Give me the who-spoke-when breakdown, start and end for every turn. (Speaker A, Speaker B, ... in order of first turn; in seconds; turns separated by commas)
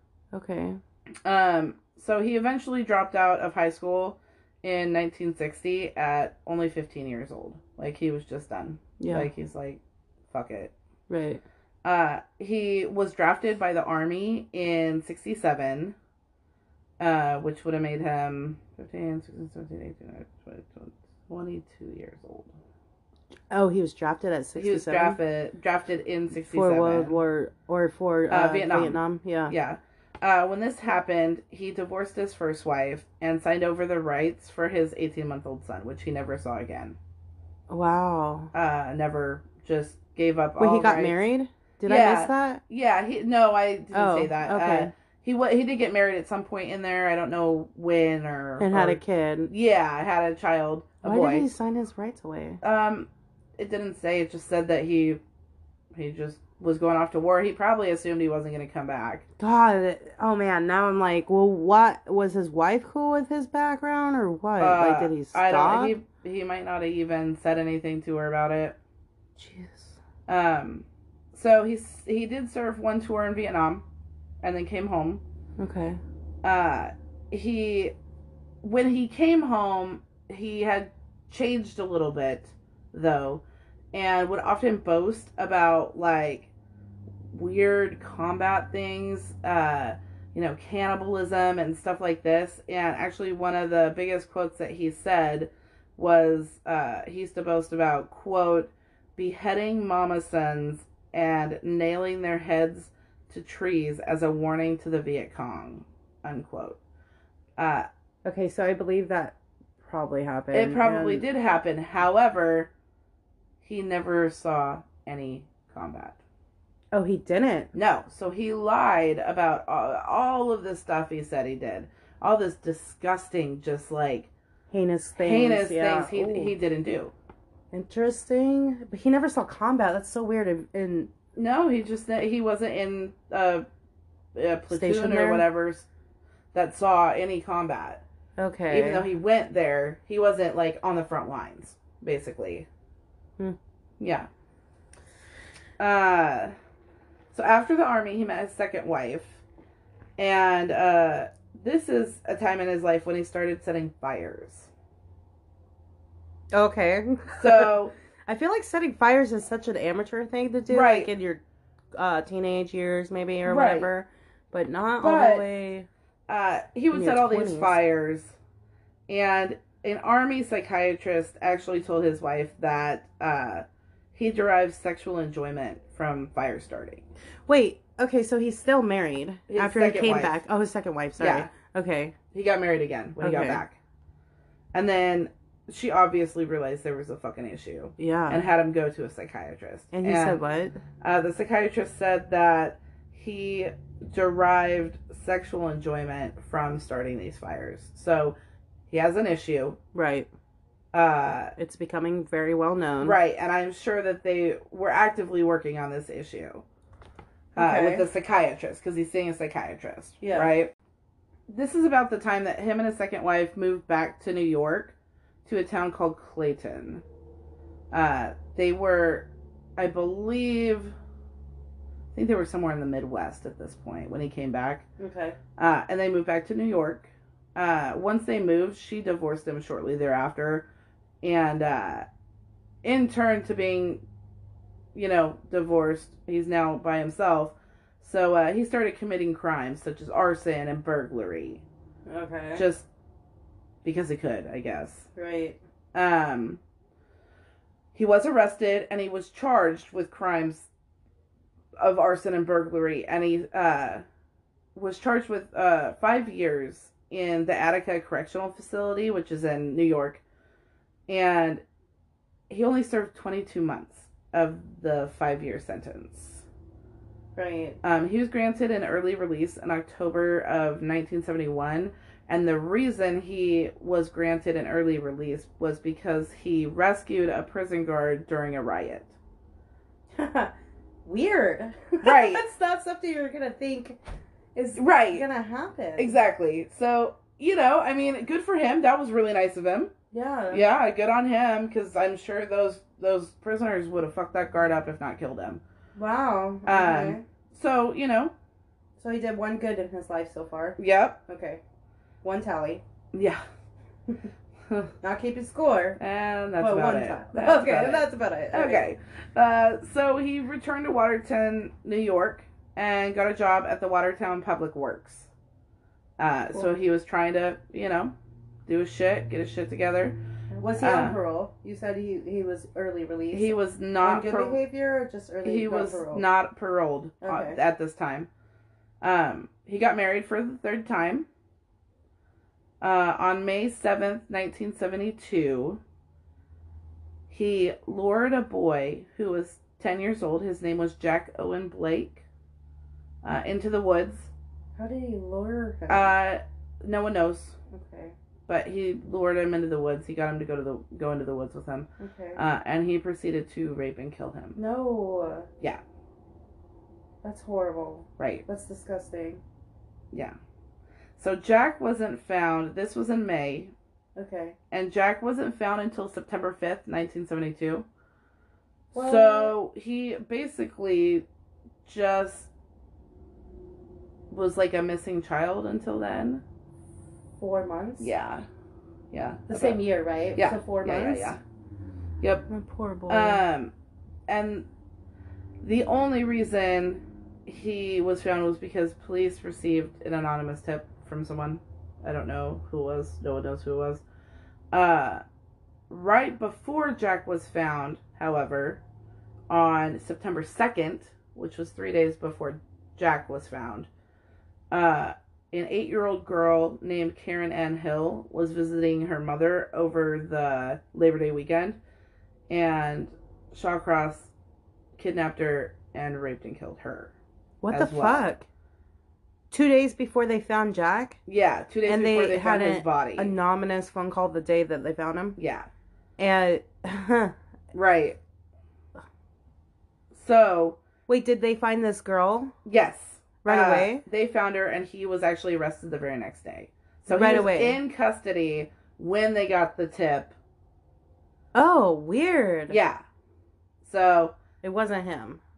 Speaker A: 0.3-0.8, Speaker B: 1.2-10.7, Speaker A: 9.0-9.3, Speaker A: 11.1-11.4, Speaker B: 11.8-15.9, Speaker B: 17.0-22.5, Speaker A: 23.5-25.2, Speaker B: 24.6-27.1, Speaker A: 26.3-29.5, Speaker B: 28.3-37.0, Speaker A: 37.7-38.5, Speaker B: 38.5-41.2, Speaker A: 40.6-42.6, Speaker B: 41.8-51.5, Speaker A: 43.9-44.9, Speaker A: 48.6-49.5, Speaker A: 51.0-52.6, Speaker B: 52.6-55.2, Speaker B: 55.9-59.2, Speaker A: 59.4-66.0, Speaker B: 64.6-68.8, Speaker A: 69.4-70.0, Speaker B: 70.3-73.8, Speaker B: 74.4-75.2, Speaker A: 75.6-76.0, Speaker B: 76.4-77.9, Speaker B: 78.6-86.5, Speaker B: 87.3-106.8, Speaker B: 107.6-107.9, Speaker A: 108.2-111.2, Speaker B: 110.5-112.7, Speaker B: 113.6-116.2, Speaker A: 116.9-117.7, Speaker B: 117.7-124.3, Speaker A: 124.7-126.5, Speaker B: 125.2-127.1, Speaker A: 127.7-131.1, Speaker B: 131.3-133.7, Speaker B: 134.3-135.9, Speaker A: 134.7-135.5, Speaker B: 136.5-138.0, Speaker A: 138.4-139.1, Speaker B: 138.7-142.7, Speaker B: 144.0-144.3, Speaker B: 145.8-146.5, Speaker B: 147.3-149.4, Speaker B: 150.2-154.7, Speaker A: 156.5-157.7, Speaker B: 157.4-157.9, Speaker A: 158.2-161.4, Speaker B: 160.7-161.1, Speaker A: 161.9-165.9, Speaker B: 163.4-163.9, Speaker B: 165.0-165.4, Speaker B: 166.3-168.3, Speaker A: 166.9-167.8, Speaker B: 169.1-177.0, Speaker A: 177.4-182.1, Speaker B: 179.5-180.4, Speaker B: 181.2-181.5, Speaker B: 182.3-183.8, Speaker A: 183.2-183.6, Speaker B: 184.7-190.4, Speaker A: 188.0-188.4, Speaker A: 189.9-190.8, Speaker B: 191.0-198.4, Speaker B: 198.9-199.8, Speaker A: 199.9-200.3, Speaker B: 200.9-201.5, Speaker A: 201.6-203.2, Speaker B: 203.0-206.6, Speaker A: 207.6-208.1, Speaker B: 207.6-210.7, Speaker A: 210.2-210.5, Speaker B: 211.5-217.0, Speaker B: 217.9-220.9, Speaker B: 222.1-224.8, Speaker A: 225.0-225.4, Speaker B: 225.6-230.7, Speaker B: 231.2-232.1, Speaker B: 232.8-234.0, Speaker B: 234.9-241.6, Speaker A: 242.1-242.6, Speaker B: 242.5-242.9, Speaker B: 243.8-245.1, Speaker A: 245.2-245.6, Speaker B: 245.9-246.6, Speaker B: 247.9-250.7, Speaker B: 251.8-254.0, Speaker B: 254.7-260.2, Speaker B: 261.1-261.6, Speaker B: 262.5-266.4, Speaker A: 267.3-267.8, Speaker B: 267.8-279.1, Speaker A: 280.1-280.5, Speaker A: 281.0-284.0, Speaker B: 282.0-282.4, Speaker A: 284.5-286.1, Speaker B: 284.8-285.2, Speaker B: 286.0-289.9, Speaker A: 290.1-290.6, Speaker B: 290.5-295.6, Speaker A: 295.9-297.2, Speaker B: 296.6-298.3, Speaker A: 299.0-301.6, Speaker B: 300.8-301.2, Speaker A: 302.2-302.8, Speaker B: 303.1-303.4, Speaker A: 305.0-306.0, Speaker B: 306.0-315.3, Speaker A: 306.6-308.9, Speaker B: 316.2-318.1, Speaker B: 318.7-320.2, Speaker A: 320.5-326.2, Speaker B: 320.8-321.2, Speaker B: 323.3-324.6, Speaker B: 325.4-328.3, Speaker A: 327.2-327.6, Speaker B: 329.0-331.3, Speaker B: 332.8-335.8, Speaker B: 337.3-342.2, Speaker B: 343.2-344.3, Speaker A: 344.8-346.1, Speaker B: 345.9-347.6, Speaker A: 347.7-348.1, Speaker B: 348.5-354.6, Speaker A: 352.0-352.4, Speaker A: 354.6-355.5, Speaker A: 357.2-359.4, Speaker B: 358.2-358.4, Speaker B: 361.2-363.7, Speaker A: 364.1-364.6, Speaker B: 364.7-367.9, Speaker A: 368.9-369.5, Speaker B: 368.9-371.2, Speaker B: 371.8-372.5, Speaker B: 374.3-376.4, Speaker A: 377.4-378.1, Speaker B: 378.0-378.4, Speaker B: 379.1-379.8, Speaker A: 379.5-381.4, Speaker B: 380.3-381.4, Speaker B: 382.2-382.4, Speaker A: 382.5-383.4, Speaker B: 383.1-383.7, Speaker B: 384.3-384.7, Speaker B: 385.6-394.0, Speaker B: 394.7-395.2, Speaker B: 395.9-398.8, Speaker B: 399.5-403.9, Speaker B: 404.7-411.8, Speaker B: 412.5-414.3, Speaker B: 415.0-417.1, Speaker A: 417.6-418.4, Speaker B: 417.7-418.3, Speaker A: 419.5-421.2, Speaker B: 421.3-423.3, Speaker A: 421.9-425.4, Speaker B: 425.4-425.7, Speaker A: 426.2-427.3, Speaker B: 427.7-428.2, Speaker B: 430.1-430.8, Speaker A: 431.1-432.5, Speaker B: 432.6-440.3, Speaker A: 433.4-434.0, Speaker A: 437.1-437.8, Speaker A: 441.5-442.8, Speaker B: 442.7-443.0, Speaker B: 443.8-444.4, Speaker A: 444.6-445.4